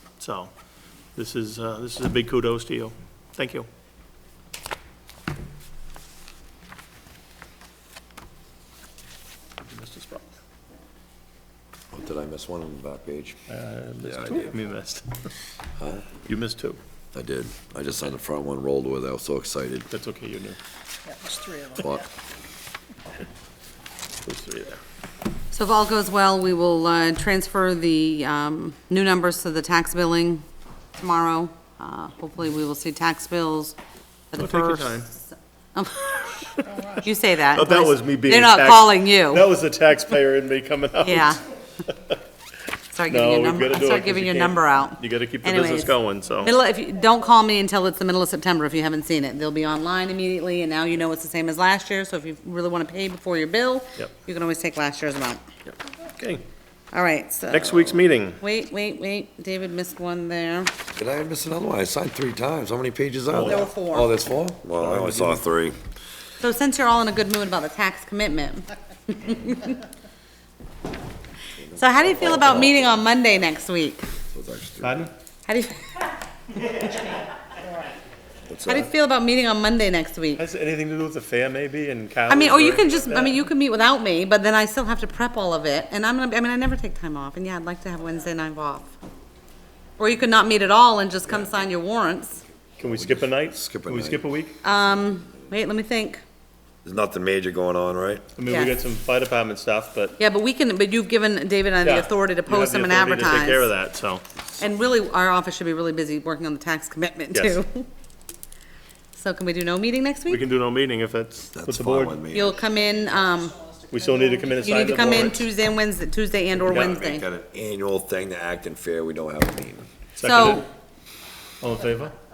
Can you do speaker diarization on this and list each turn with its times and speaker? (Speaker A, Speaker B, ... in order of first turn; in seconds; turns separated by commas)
Speaker A: 0.2-0.5, Speaker A: 1.1-3.6, Speaker A: 9.7-10.2, Speaker B: 11.9-13.4, Speaker A: 13.5-15.3, Speaker B: 14.0-14.5, Speaker B: 15.8-16.1, Speaker A: 16.2-16.8, Speaker B: 17.1-19.9, Speaker A: 19.9-20.6, Speaker C: 21.0-22.0, Speaker B: 21.8-22.1, Speaker A: 24.2-24.8, Speaker D: 25.5-30.4, Speaker D: 30.9-33.8, Speaker D: 34.3-36.4, Speaker A: 34.4-35.1, Speaker C: 36.6-37.1, Speaker D: 37.0-39.5, Speaker A: 37.5-41.4, Speaker D: 41.0-41.4, Speaker D: 42.9-55.4, Speaker A: 43.1-46.5, Speaker A: 55.6-56.4, Speaker D: 56.9-60.7, Speaker A: 57.5-58.4, Speaker B: 60.9-65.8, Speaker A: 63.3-63.6, Speaker D: 63.4-64.1, Speaker A: 64.7-65.4, Speaker D: 66.4-69.8, Speaker B: 71.6-72.7, Speaker D: 71.7-74.1, Speaker B: 74.3-75.1, Speaker A: 74.8-75.1, Speaker D: 75.5-75.8, Speaker C: 77.6-77.9, Speaker B: 78.5-78.9, Speaker D: 78.6-80.4, Speaker A: 80.4-83.4, Speaker D: 82.3-88.9, Speaker D: 90.0-92.4, Speaker A: 92.8-94.5, Speaker B: 92.8-94.2, Speaker D: 94.6-96.2, Speaker B: 96.8-98.3, Speaker A: 98.4-100.2, Speaker D: 98.4-98.7, Speaker D: 100.2-103.7, Speaker A: 101.8-104.2, Speaker D: 104.6-107.9, Speaker A: 107.3-107.6, Speaker D: 109.2-110.4, Speaker A: 110.3-112.2, Speaker B: 111.5-112.6, Speaker D: 112.3-113.5, Speaker C: 112.5-115.4, Speaker A: 113.9-115.5, Speaker D: 114.6-117.2, Speaker A: 116.6-117.1, Speaker B: 116.7-119.9, Speaker A: 120.2-120.7, Speaker D: 120.2-120.7, Speaker A: 121.6-122.1